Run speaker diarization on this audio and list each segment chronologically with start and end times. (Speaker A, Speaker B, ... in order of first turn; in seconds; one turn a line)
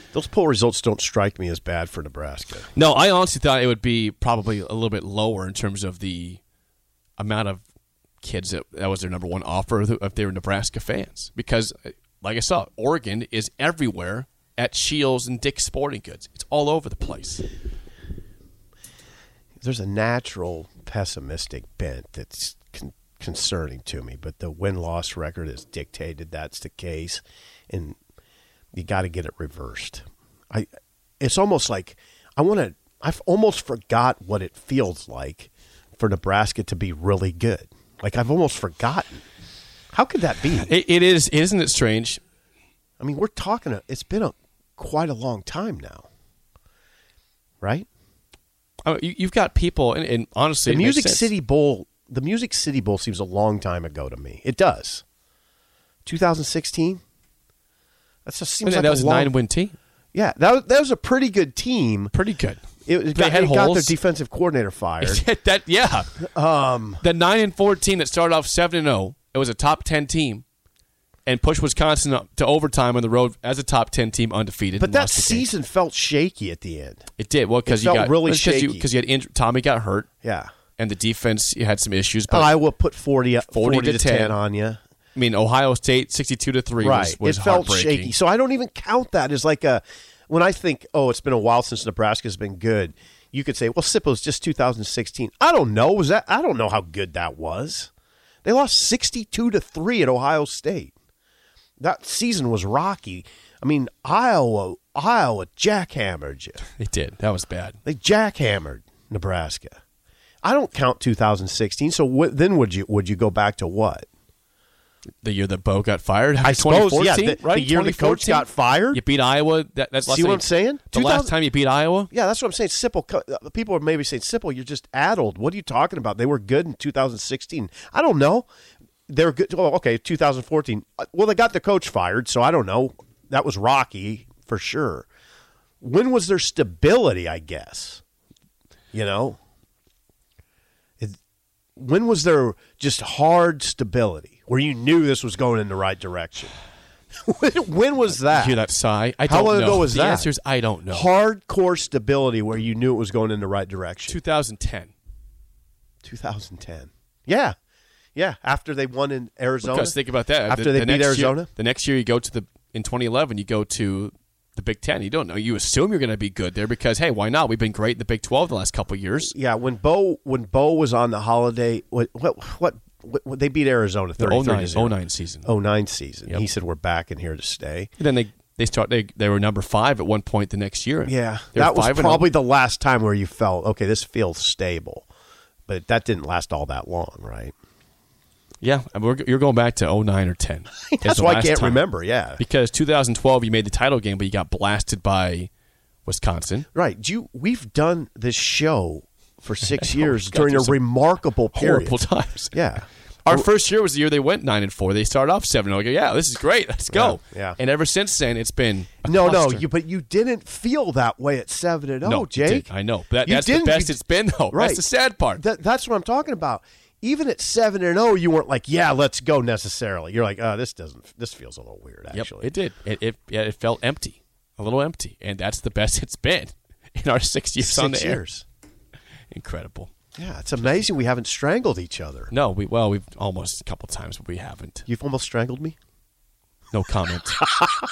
Speaker A: 0.1-2.7
Speaker B: 2.7-6.4
Speaker B: 7.2-7.6
Speaker B: 8.2-17.4
Speaker A: 19.6-28.0
Speaker A: 28.7-30.7
Speaker A: 31.2-39.2
Speaker A: 39.9-40.7
Speaker B: 40.6-42.2
Speaker A: 43.0-46.1
Speaker A: 47.6-47.9
Speaker B: 48.8-51.3
Speaker A: 50.6-55.0
Speaker A: 56.0-57.0
Speaker A: 58.2-59.3
Speaker B: 58.6-59.8
Speaker A: 60.1-62.1
Speaker B: 62.1-64.0
Speaker A: 62.9-65.2
Speaker B: 65.0-66.1
Speaker A: 66.2-67.0
Speaker B: 67.0-70.4
Speaker B: 71.2-75.5
Speaker A: 74.8-77.0
Speaker B: 77.2-80.1
Speaker A: 77.7-78.8
Speaker A: 80.2-80.5
Speaker B: 80.8-82.6
Speaker A: 82.3-84.8
Speaker B: 83.5-84.4
Speaker B: 85.1-88.1
Speaker A: 86.8-97.9
Speaker A: 98.4-100.9
Speaker A: 101.8-106.6
Speaker B: 106.7-107.8
Speaker A: 107.8-109.8
Speaker A: 110.4-114.1
Speaker B: 115.2-122.1
Speaker A: 116.4-119.0
Speaker A: 120.1-121.3
Speaker A: 122.1-128.5
Speaker A: 129.1-135.1
Speaker A: 135.8-138.0
Speaker A: 138.9-139.4
Speaker A: 141.8-146.5
Speaker A: 147.2-148.6
Speaker B: 148.3-151.1
Speaker A: 149.2-150.3
Speaker A: 150.9-154.2
Speaker B: 154.1-154.9
Speaker A: 156.0-157.5
Speaker A: 158.2-161.5
Speaker B: 159.6-169.3
Speaker A: 169.2-177.9
Speaker B: 174.2-175.5
Speaker B: 178.0-182.3
Speaker A: 181.1-185.1
Speaker A: 185.7-187.5
Speaker B: 188.6-191.8
Speaker A: 190.9-192.4
Speaker B: 192.4-195.5
Speaker B: 196.0-196.7
Speaker A: 196.7-203.5
Speaker B: 199.6-200.8
Speaker B: 201.5-202.6
Speaker B: 203.2-209.6
Speaker A: 206.9-207.6
Speaker A: 209.0-212.7
Speaker B: 212.0-215.4
Speaker A: 213.2-214.0
Speaker A: 214.5-222.5
Speaker B: 222.1-228.2
Speaker A: 227.6-228.4
Speaker B: 229.3-229.9
Speaker A: 230.2-232.3
Speaker B: 232.3-234.8
Speaker A: 234.9-235.8
Speaker B: 236.7-237.5